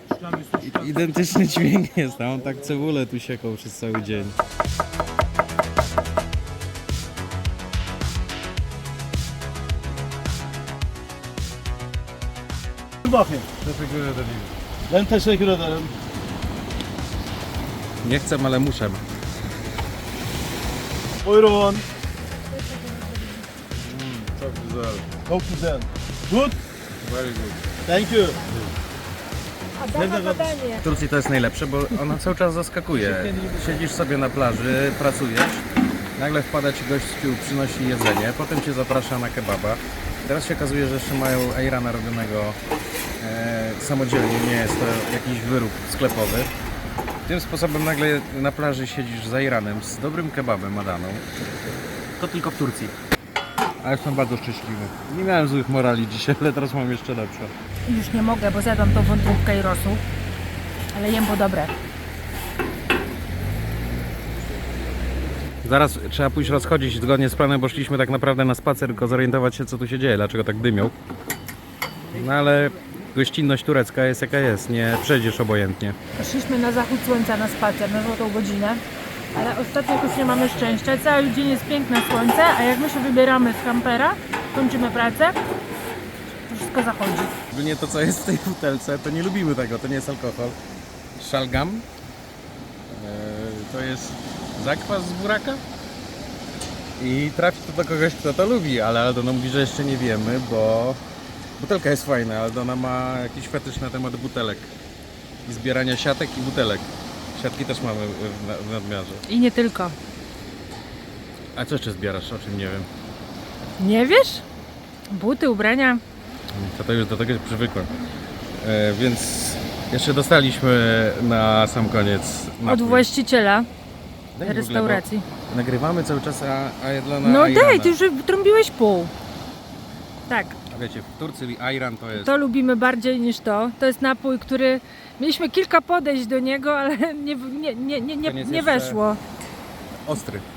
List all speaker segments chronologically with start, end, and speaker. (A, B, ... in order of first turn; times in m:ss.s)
0:00.5-0:04.3 A
0:13.0-0:13.5 B
0:13.6-0:14.5 A
0:14.9-0:15.9 B
0:18.0-0:19.0 A
0:21.2-0:21.8 B
0:22.5-0:23.4 C
0:23.8-0:25.1 A
0:25.2-0:26.6 B
0:27.0-0:27.6 A
0:27.8-0:28.4 B
0:29.7-0:30.8 C
0:29.9-0:30.6 B
0:30.8-0:35.6 A
0:36.2-0:42.6 A
0:43.2-0:46.5 A
0:47.2-0:51.2 A
0:52.2-0:52.9 A
0:53.8-0:57.5 A
0:57.8-1:00.0 C
1:00.9-1:01.7 C
1:05.6-1:10.9 A
1:12.1-1:16.0 A
1:16.2-1:18.8 C
1:19.3-1:25.4 C
1:26.5-1:27.4 C
1:27.5-1:30.6 A
1:31.2-1:31.8 A
1:32.9-1:35.6 A
1:37.0-1:41.0 A
1:41.6-1:44.7 A
1:45.4-1:49.2 A
1:49.3-1:50.0 C
1:51.5-1:52.9 A
1:53.8-1:54.4 C
1:55.1-1:56.0 C
1:56.5-1:57.9 A
1:58.6-2:03.1 A
2:02.6-2:03.7 C
2:04.4-2:08.0 A
2:04.4-2:05.3 C
2:07.2-2:09.1 C
2:10.3-2:10.6 C
2:10.7-2:12.4 A
2:12.1-2:19.2 C
2:18.2-2:19.0 A
2:20.0-2:20.4 A